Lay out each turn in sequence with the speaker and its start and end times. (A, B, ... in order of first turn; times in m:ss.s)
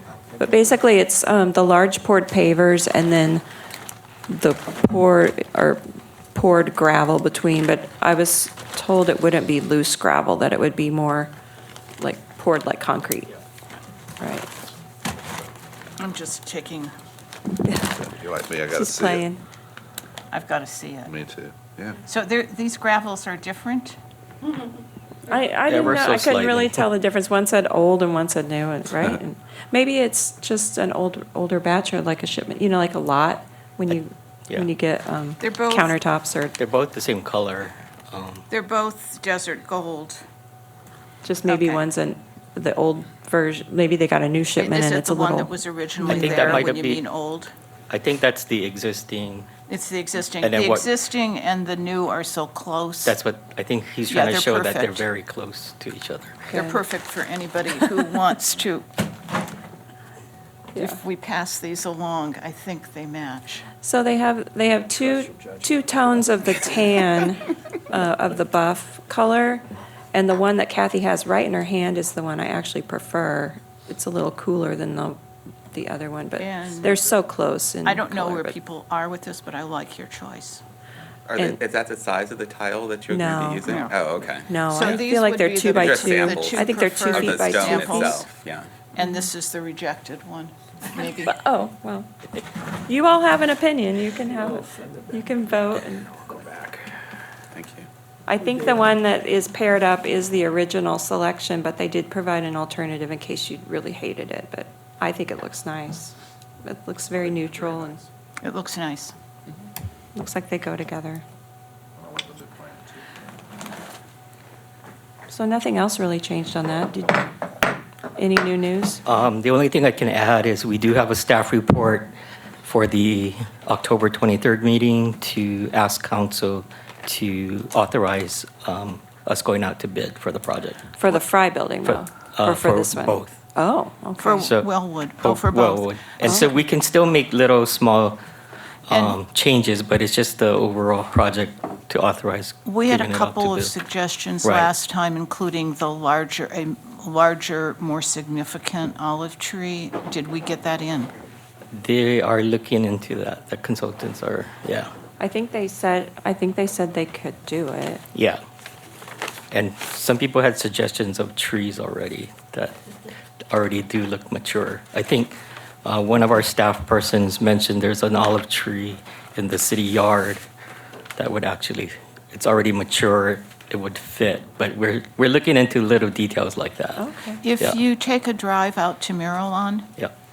0:00.4-0:03.4 A
0:04.3-0:05.8 A
0:06.3-0:11.3 A
0:12.0-0:13.3 A
0:14.2-0:14.5 A
0:16.0-0:16.9 B
0:17.6-0:18.0 A
0:18.0-0:19.3 C
0:18.7-0:19.4 A
0:20.3-0:21.2 B
0:21.0-0:22.0 C
0:22.0-0:24.0 B
0:25.3-0:36.6 A
0:25.7-0:26.8 D
0:35.4-0:36.0 B
0:36.6-0:38.5 D
0:38.5-0:40.2 B
0:41.2-0:45.5 A
0:41.4-0:41.8 B
0:44.6-0:47.5 B
0:46.0-0:47.0 D
0:46.1-0:46.5 A
0:47.9-0:49.5 D
0:49.7-0:53.2 B
0:50.4-0:50.9 D
0:53.0-0:56.4 D
0:54.1-0:55.1 B
0:56.5-0:56.8 A
0:56.5-0:58.9 B
1:00.8-1:03.6 B
1:03.8-1:15.2 A
1:15.7-1:18.6 A
1:16.4-1:17.0 B
1:17.8-1:20.6 B
1:21.3-1:24.5 E
1:23.1-1:23.7 A
1:23.7-1:23.9 B
1:24.5-1:28.2 A
1:24.7-1:28.3 B
1:25.7-1:28.7 E
1:28.9-1:31.3 B
1:31.2-1:32.1 A
1:32.8-1:36.1 A
1:37.5-1:37.9 E
1:38.3-1:48.0 A
1:48.4-1:49.1 B
1:50.2-1:51.2 A
1:52.0-1:53.1 C
1:55.3-1:57.3 A
1:58.2-1:59.0 A
1:59.1-2:02.1 D
2:02.6-2:11.2 D
2:11.0-2:14.5 A
2:11.8-2:13.3 D
2:14.2-2:15.9 B
2:14.4-2:18.2 D
2:16.2-2:16.5 A
2:18.9-2:23.8 D
2:18.9-2:19.2 B
2:22.6-2:31.1 B
2:24.4-2:24.7 D
2:31.7-2:34.9 D
2:35.2-2:38.0 A
2:38.2-2:38.4 D
2:39.5-2:42.8 D
2:43.5-2:50.4 D
2:51.2-2:57.0 D
2:57.0-2:57.4 A
2:57.4-2:59.9 B